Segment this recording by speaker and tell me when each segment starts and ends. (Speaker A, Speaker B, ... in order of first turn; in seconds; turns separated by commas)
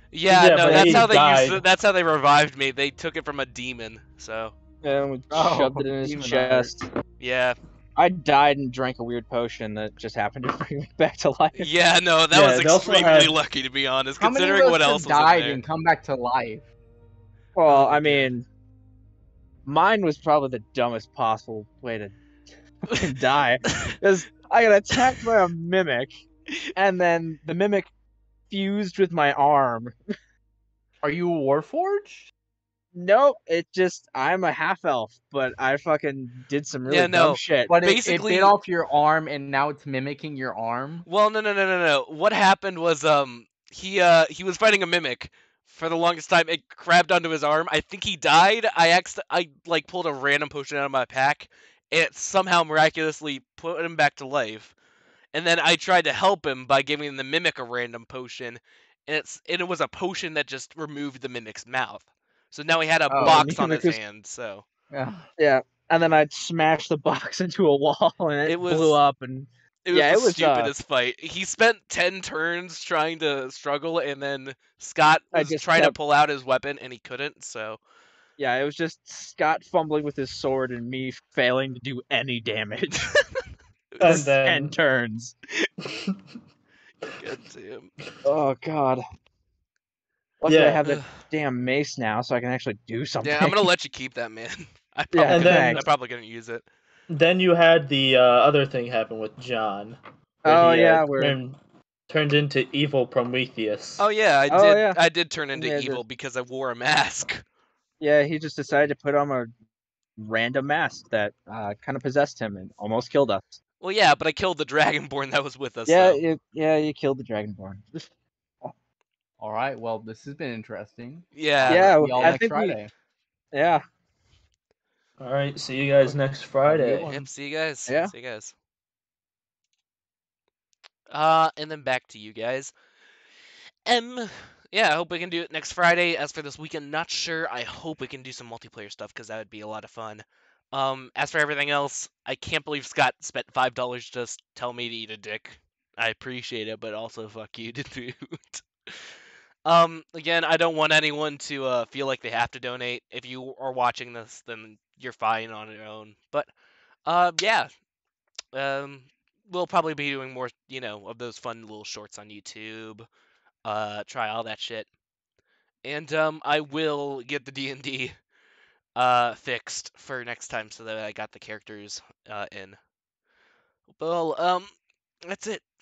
Speaker A: 0.1-4.5, Speaker B: 0.3-1.6, Speaker C: 0.6-1.1, Speaker C: 4.8-6.9, Speaker D: 5.3-6.8, Speaker A: 7.2-7.6, Speaker C: 8.0-11.7, Speaker A: 11.6-15.6, Speaker B: 12.3-13.3, Speaker D: 14.2-16.6, Speaker C: 17.6-18.4, Speaker D: 17.7-18.3, Speaker C: 19.6-22.1, Speaker C: 22.8-26.2, Speaker C: 26.7-27.9, Speaker C: 28.5-29.9, Speaker D: 31.0-32.3, Speaker C: 32.9-37.8, Speaker A: 36.9-38.6, Speaker D: 37.7-41.1, Speaker A: 41.1-54.7, Speaker A: 55.3-64.6, Speaker D: 63.1-63.5, Speaker C: 63.1-64.0, Speaker D: 64.9-65.3, Speaker C: 65.4-70.7, Speaker A: 68.5-69.0, Speaker A: 69.8-77.8, Speaker C: 75.3-76.0, Speaker C: 78.4-83.1, Speaker A: 83.9-84.2, Speaker B: 84.0-84.8, Speaker C: 84.0-85.3, Speaker A: 87.2-87.9, Speaker C: 88.2-89.0, Speaker C: 90.4-93.6, Speaker B: 90.5-90.8, Speaker A: 90.8-91.1, Speaker A: 93.2-96.6, Speaker C: 95.1-95.8, Speaker B: 95.3-95.8, Speaker B: 97.1-101.6, Speaker C: 100.4-101.4, Speaker B: 102.1-104.0, Speaker A: 104.0-107.4, Speaker C: 104.5-105.0, Speaker C: 105.5-106.0, Speaker C: 108.0-109.5, Speaker C: 110.2-113.6, Speaker A: 113.8-116.2, Speaker C: 115.9-118.1, Speaker D: 119.4-122.9, Speaker A: 121.3-122.3, Speaker C: 121.7-122.8, Speaker C: 123.5-123.8, Speaker B: 125.2-127.1, Speaker C: 126.7-127.2, Speaker A: 127.1-128.5, Speaker C: 127.9-128.1, Speaker A: 131.1-132.7, Speaker A: 133.9-149.0, Speaker A: 149.6-156.5, Speaker A: 157.1-157.7, Speaker A: 158.5-163.1, Speaker A: 163.6-164.9, Speaker A: 165.8-168.2, Speaker A: 168.9-172.8, Speaker A: 174.0-174.7, Speaker A: 175.2-175.6